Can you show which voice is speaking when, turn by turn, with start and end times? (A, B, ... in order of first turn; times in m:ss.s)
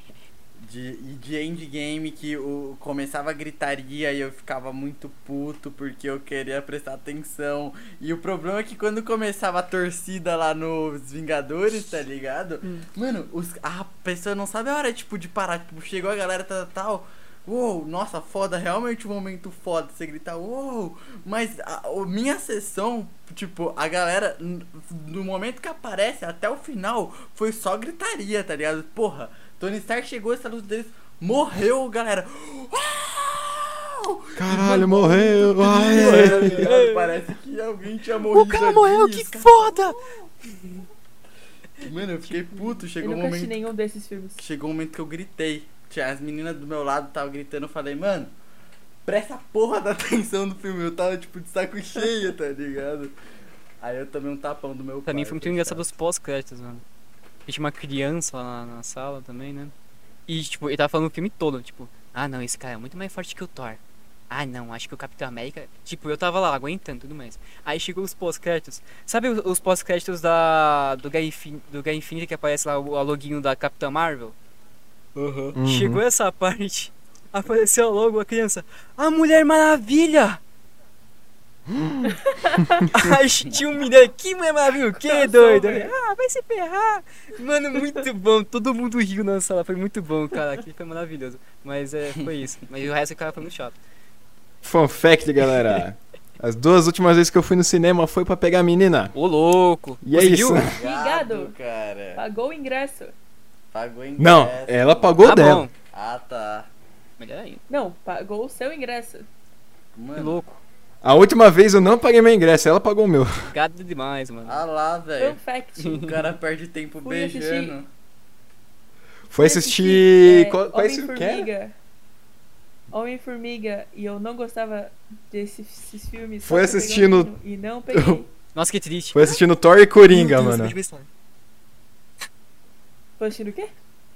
0:00.6-0:39.9 A
0:34.4-0:36.7 B
0:35.7-0:37.2 C
0:38.2-0:40.0 C
0:41.8-0:43.6 A
0:42.2-0:42.8 C
0:43.0-0:44.4 D
0:44.4-0:48.3 A
0:49.0-0:53.1 A
0:53.8-0:55.9 A
0:55.0-0:56.8 C
0:57.5-0:59.7 C
1:00.3-1:03.8 C
1:04.3-1:14.3 C
1:15.1-1:15.6 A
1:15.5-1:16.0 B
1:15.6-1:20.4 C
1:21.7-1:23.1 B
1:22.1-1:22.9 D
1:22.9-1:33.8 C
1:25.0-1:25.9 D
1:34.6-1:39.1 B
1:39.1-1:40.6 C
1:40.0-1:40.7 B
1:40.7-1:42.2 A
1:40.8-1:41.5 D
1:42.1-1:43.1 D
1:43.7-1:46.7 A
1:44.2-1:45.7 B
1:45.2-1:45.7 C
1:47.2-1:47.6 C
1:47.7-1:49.3 D
1:49.9-1:50.4 A
1:50.2-1:50.6 C
1:51.0-1:53.5 B
1:53.4-1:54.6 C
1:54.4-1:55.4 A
1:55.2-1:56.1 D
1:55.8-1:56.2 C
1:55.9-1:57.9 A
1:57.0-1:57.7 D
1:59.3-2:01.5 B
1:59.4-2:01.7 D
2:02.9-2:08.3 D
2:06.4-2:07.3 B
2:07.9-2:08.2 B
2:08.5-2:09.4 C
2:09.1-2:10.8 B
2:10.1-2:11.1 C
2:13.2-2:13.7 D